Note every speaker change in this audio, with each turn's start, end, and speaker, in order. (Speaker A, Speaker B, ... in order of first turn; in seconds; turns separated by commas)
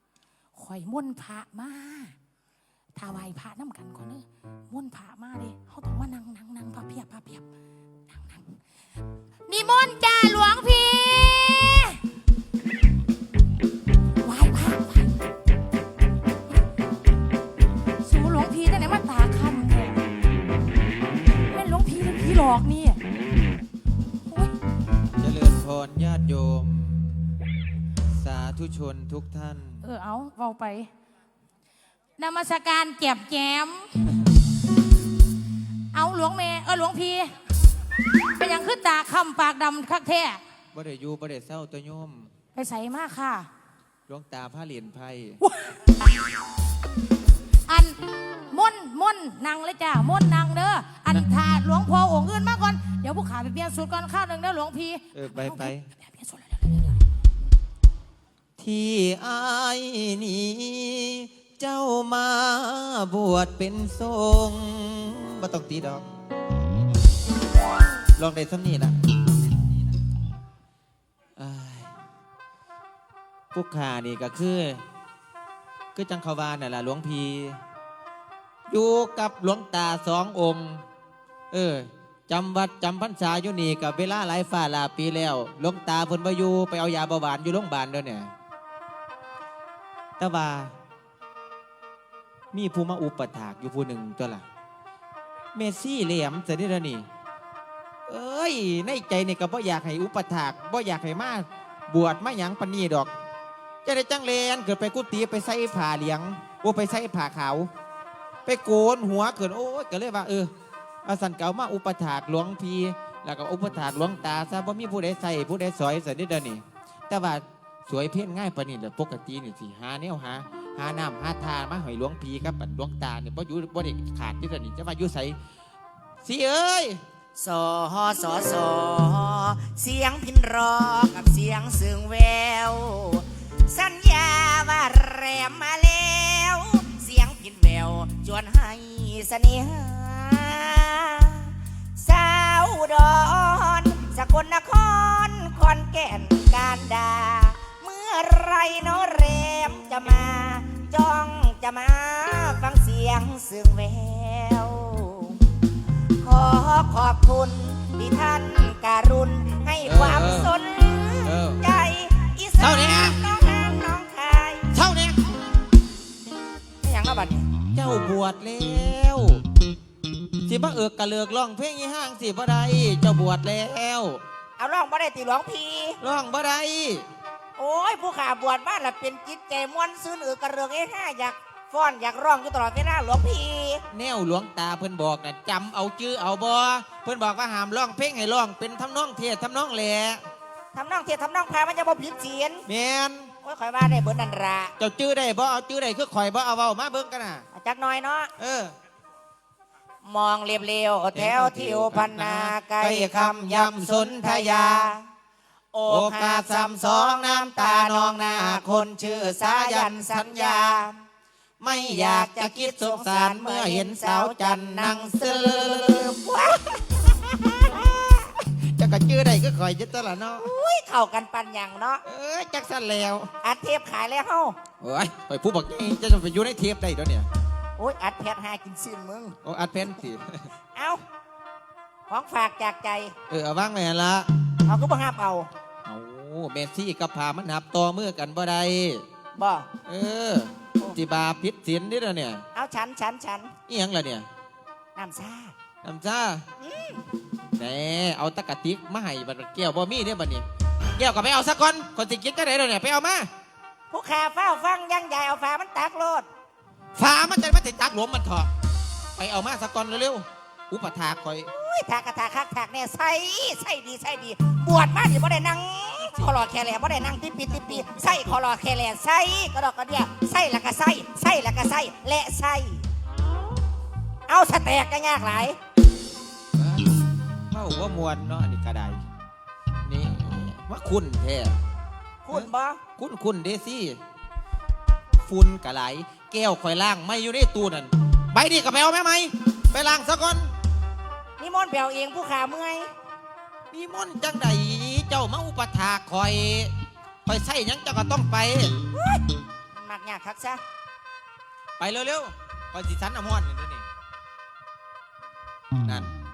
Speaker A: 0.6-2.1, Speaker A: 3.0-7.5, Speaker A: 8.1-8.6, Speaker A: 9.5-12.0, Speaker A: 14.2-15.2, Speaker A: 18.0-20.0, Speaker A: 21.5-23.0, Speaker B: 25.2-27.2, Speaker B: 28.2-29.8, Speaker A: 29.8-30.9, Speaker A: 32.2-34.1, Speaker A: 35.9-37.3, Speaker A: 38.4-40.4, Speaker B: 40.7-42.3, Speaker A: 42.5-43.5, Speaker B: 44.1-45.4, Speaker A: 45.4-45.9, Speaker A: 47.7-48.0, Speaker A: 48.5-57.0, Speaker B: 55.1-55.9, Speaker B: 58.6-66.1, Speaker B: 68.2-69.0, Speaker B: 71.4-72.0, Speaker B: 73.5-74.8, Speaker B: 75.9-77.6, Speaker B: 78.7-80.8, Speaker B: 81.5-88.3, Speaker B: 90.2-90.7, Speaker B: 92.5-94.4, Speaker B: 95.5-97.1, Speaker B: 98.1-103.1, Speaker B: 103.8-107.7, Speaker B: 108.5-110.5, Speaker B: 111.0-125.4, Speaker B: 126.2-127.0, Speaker C: 127.4-155.4, Speaker C: 156.2-164.7, Speaker B: 159.8-160.5, Speaker B: 161.2-161.6, Speaker B: 162.6-163.2, Speaker B: 164.7-165.2, Speaker C: 166.8-167.5, Speaker B: 167.7-169.4, Speaker B: 170.4-174.2, Speaker C: 174.6-176.0, Speaker B: 176.0-177.1, Speaker C: 177.6-183.8, Speaker B: 183.9-190.3, Speaker C: 190.7-192.7, Speaker B: 192.7-193.3, Speaker C: 193.4-194.7, Speaker B: 194.8-197.5, Speaker C: 197.5-198.3, Speaker B: 198.4-198.8, Speaker C: 200.0-205.1, Speaker B: 201.1-204.9, Speaker C: 205.7-211.0, Speaker B: 205.9-210.8, Speaker B: 211.6-216.2, Speaker C: 211.7-218.3, Speaker B: 218.4-220.5, Speaker C: 220.4-222.0, Speaker B: 222.1-223.3, Speaker C: 223.4-224.6, Speaker B: 224.8-227.3, Speaker C: 227.8-229.4, Speaker B: 229.4-230.5, Speaker C: 230.8-231.0, Speaker C: 232.1-233.2, Speaker B: 233.3-234.3, Speaker C: 234.7-235.5, Speaker B: 235.8-239.1, Speaker C: 239.4-239.7, Speaker B: 239.9-242.4, Speaker C: 242.6-243.5, Speaker B: 243.7-244.3, Speaker C: 245.0-245.6, Speaker B: 245.8-246.4, Speaker C: 246.6-247.0, Speaker B: 247.6-250.5, Speaker B: 251.0-253.3, Speaker C: 253.9-256.3, Speaker B: 257.0-258.5, Speaker B: 259.2-261.5, Speaker C: 261.5-272.9, Speaker B: 266.0-266.4, Speaker B: 267.5-268.3, Speaker C: 274.3-275.6, Speaker B: 276.6-279.0, Speaker B: 279.9-281.6, Speaker C: 282.2-282.8, Speaker B: 282.3-284.0, Speaker B: 285.2-290.5, Speaker C: 291.4-292.9, Speaker B: 293.7-296.7, Speaker B: 297.3-298.8, Speaker C: 298.9-300.6, Speaker B: 301.8-303.9, Speaker B: 305.8-306.1